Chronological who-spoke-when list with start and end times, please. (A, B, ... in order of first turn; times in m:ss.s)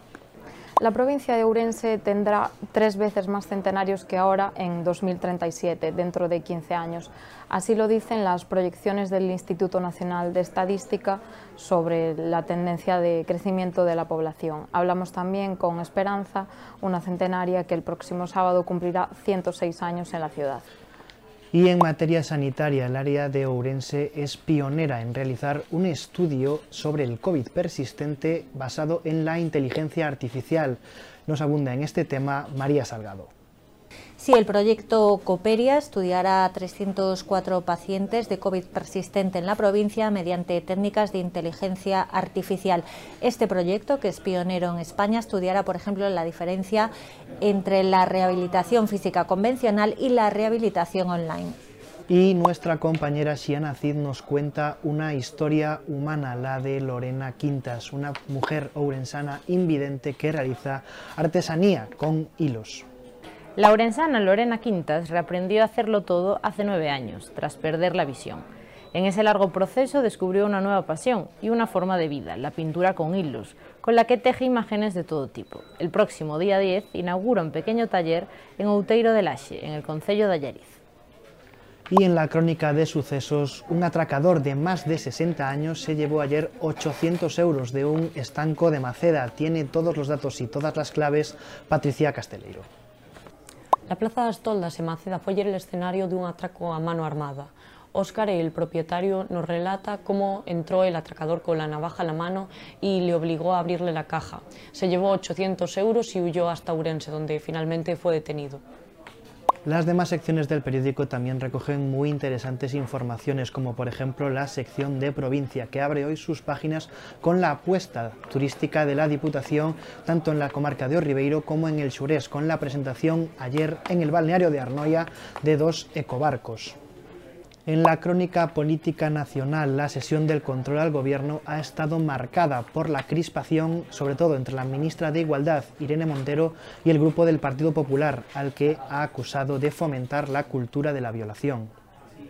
0:00.8-0:20.7 A
0:21.5-0:33.3 B
0:34.2-0:46.9 C
0:47.4-0:51.6 C
0:52.1-1:02.8 B
1:03.6-1:20.8 D
1:21.9-1:32.7 B
1:33.9-1:48.6 E
1:49.6-2:06.8 B
2:07.6-2:21.7 B